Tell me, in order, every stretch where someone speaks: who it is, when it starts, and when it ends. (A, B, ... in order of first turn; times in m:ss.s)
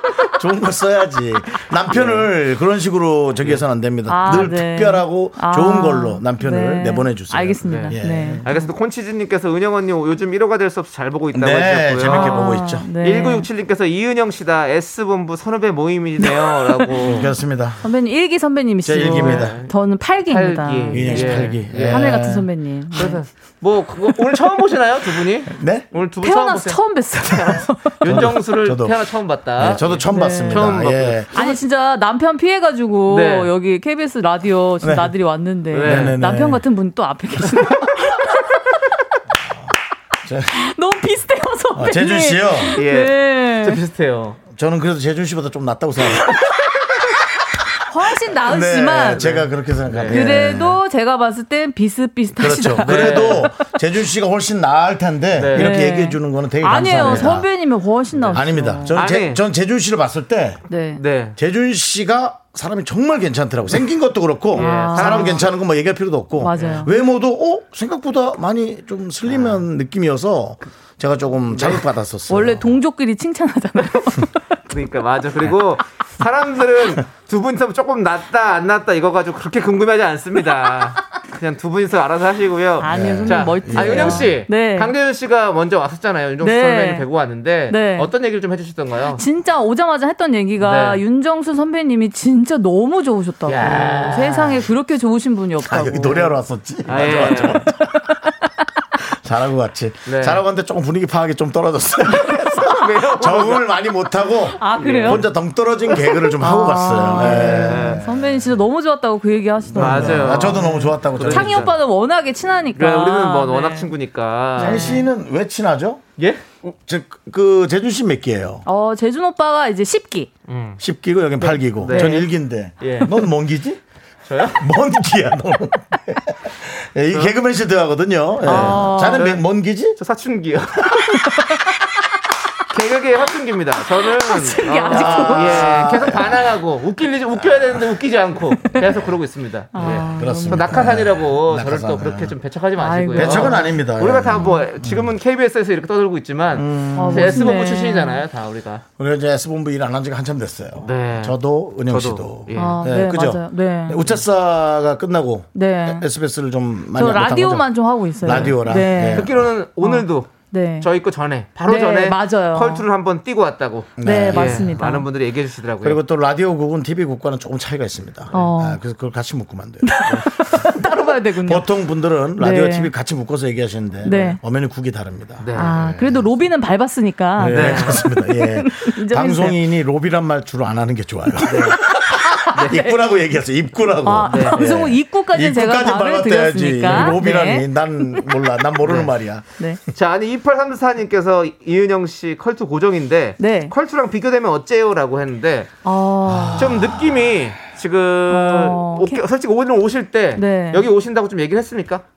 0:00.3-0:08.4 A
0:01.9-0:02.3 B
0:04.0-0:08.7 C
0:07.6-0:17.3 B
0:11.3-0:12.9 A
0:12.0-0:13.5 C
0:17.0-0:17.3 C
0:17.0-0:17.8 A
0:17.8-0:23.2 C
0:18.8-0:19.6 A
0:19.0-0:19.7 B
0:20.3-0:22.1 B
0:20.9-0:22.5 A
0:22.9-0:26.8 B
0:25.5-0:25.9 A
0:26.2-0:28.3 C
0:28.0-0:31.6 B
0:28.0-0:29.0 A
0:29.6-0:31.3 A
0:30.1-0:30.8 C
0:31.3-0:38.8 C
0:33.1-0:33.5 B
0:34.8-0:35.1 A
0:35.7-0:36.2 B
0:35.8-0:36.6 A
0:40.2-0:40.6 A
0:40.5-0:43.8 C
0:41.8-0:42.8 A
0:42.8-0:44.4 B
0:44.5-0:46.4 A
0:47.9-0:49.4 C
0:48.4-0:50.8 A
0:49.2-0:50.2 B
0:50.1-0:53.6 C
0:52.4-0:57.5 A
0:52.8-0:53.5 B
0:55.3-0:55.8 B
0:55.5-0:59.0 C
0:56.9-0:57.3 B
0:58.1-0:59.4 B
0:58.3-1:00.6 A
1:00.7-1:01.0 C
1:01.0-1:01.4 B
1:01.4-1:12.7 A
1:04.5-1:05.4 C
1:04.6-1:05.5 B
1:06.4-1:07.0 C
1:06.6-1:06.8 B
1:09.3-1:09.6 B
1:11.5-1:11.8 B
1:12.3-1:14.5 C
1:14.7-1:29.2 B
1:22.8-1:24.9 C
1:22.8-1:24.3 A
1:26.4-1:27.1 C
1:27.7-1:28.1 C
1:29.1-1:36.4 C
1:30.6-1:31.0 B
1:33.4-1:34.7 B
1:35.6-1:37.8 A
1:36.9-1:37.6 B
1:37.0-1:38.3 C
1:39.2-1:48.6 A
1:40.0-1:40.4 B
1:42.6-1:43.7 B
1:44.6-1:45.3 C
1:44.8-1:45.3 B
1:46.0-1:53.9 C
1:47.1-1:48.0 B
1:49.7-1:51.7 A
1:49.7-1:51.7 B
1:52.8-1:55.0 B
1:54.6-1:55.1 C
1:54.6-1:56.0 A
1:56.2-1:56.5 B
1:56.6-1:58.6 A
1:58.7-2:00.3 C
2:00.5-2:00.8 B
2:00.8-2:03.8 A
2:01.4-2:02.3 B
2:01.9-2:02.3 C
2:02.8-2:03.1 B
2:04.3-2:04.6 B
2:04.6-2:10.0 A
2:08.4-2:09.4 B
2:08.4-2:09.3 C
2:10.0-2:11.2 B
2:12.7-2:28.8 B
2:14.0-2:15.8 C
2:14.9-2:16.5 A
2:19.7-2:20.9 C
2:19.8-2:22.3 A
2:22.8-2:23.7 C
2:23.2-2:25.1 A
2:24.3-2:24.6 C
2:26.5-2:27.4 A
2:27.0-2:28.2 C
2:29.0-2:39.5 A
2:30.8-2:31.4 B
2:31.9-2:32.9 B
2:32.6-2:34.1 C
2:35.5-2:36.0 C
2:36.9-2:40.9 C
2:38.2-2:46.0 B
2:41.6-2:42.8 C
2:44.0-2:44.7 A
2:44.0-2:45.1 C
2:45.8-2:56.2 A
2:48.3-2:48.8 C
2:49.8-2:51.7 C
2:52.3-2:52.9 C
2:54.0-2:54.4 C
2:55.4-2:55.8 B
2:55.5-2:59.6 C
2:57.4-3:09.5 A
2:57.4-2:58.0 B
3:01.4-3:01.8 B
3:02.3-3:03.0 C
3:02.5-3:02.9 B
3:04.0-3:08.4 C
3:04.3-3:04.6 B
3:06.9-3:07.2 B
3:08.8-3:09.1 B
3:09.9-3:15.7 B
3:13.4-3:13.7 C
3:15.8-3:16.7 C
3:16.3-3:17.2 A
3:16.6-3:22.0 B
3:18.3-3:19.2 C
3:20.4-3:20.9 C